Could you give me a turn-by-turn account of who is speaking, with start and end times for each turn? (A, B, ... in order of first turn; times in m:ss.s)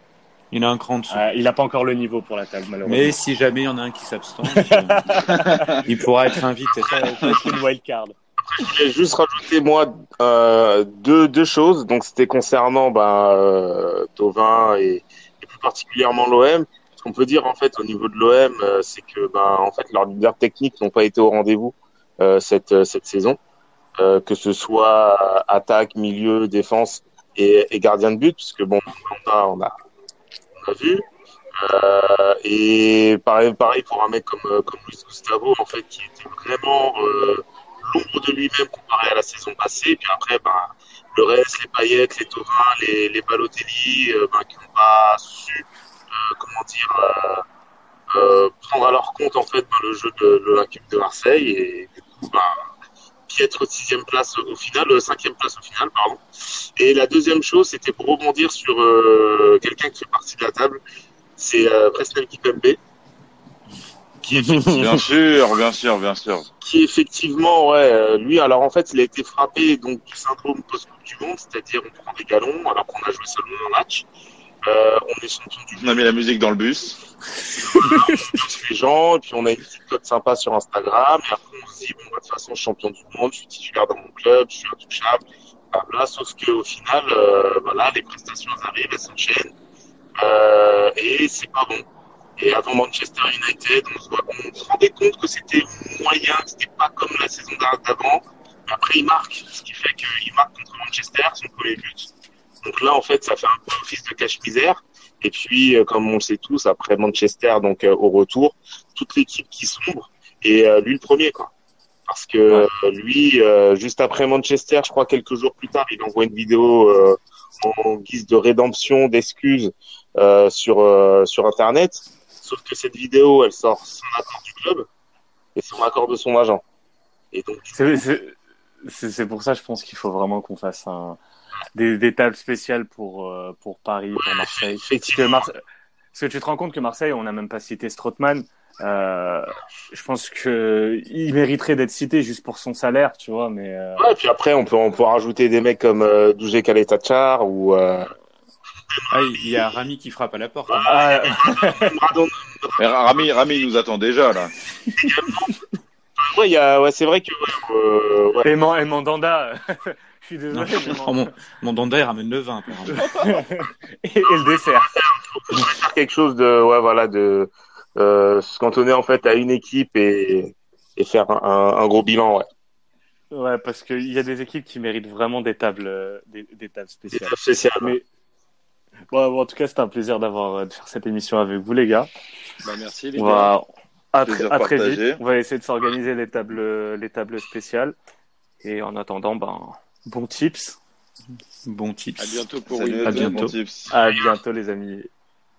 0:00.5-0:01.2 A
0:01.1-0:03.2 B
0:02.8-0:07.5 A
0:04.5-0:05.8 B
0:05.4-0:05.8 C
0:06.7-0:08.1 B
0:08.4-0:23.4 D
0:24.0-0:29.7 D
0:30.6-0:31.0 D
0:31.6-0:47.4 D
0:48.1-0:52.6 D
0:53.3-0:56.2 D
0:56.8-1:00.8 D
1:01.4-1:02.8 D
1:04.2-1:05.0 D
1:04.3-1:04.9 B
1:04.7-1:06.5 C
1:06.6-1:14.1 D
1:14.6-1:15.8 D
1:15.8-1:17.0 C
1:17.6-1:29.5 D
1:30.2-1:31.8 D
1:32.4-1:42.1 D
1:42.6-1:51.5 D
1:52.1-2:04.9 D
2:05.6-2:06.6 D
2:07.3-2:08.0 D
2:07.7-2:11.2 B
2:11.7-2:15.6 B
2:14.2-2:15.5 D
2:16.1-2:24.0 B
2:24.0-2:28.1 D
2:28.9-2:29.6 D
2:29.1-2:30.9 A
2:30.7-2:33.7 D
2:30.8-2:31.9 B
2:32.8-2:34.5 C
2:35.0-2:35.5 D
2:36.2-2:38.5 D
2:38.4-2:41.3 B
2:40.5-2:43.1 A
2:42.9-2:44.9 B
2:44.2-2:52.5 D
2:53.3-2:58.0 B
2:57.1-2:57.9 D
2:59.1-3:02.1 B
3:02.6-3:03.5 E
3:03.2-3:08.0 B
3:04.2-3:05.2 C
3:08.6-3:10.8 B
3:11.6-3:12.4 A
3:12.2-3:13.5 E
3:12.7-3:13.9 C
3:13.0-3:13.5 A
3:13.9-3:15.1 B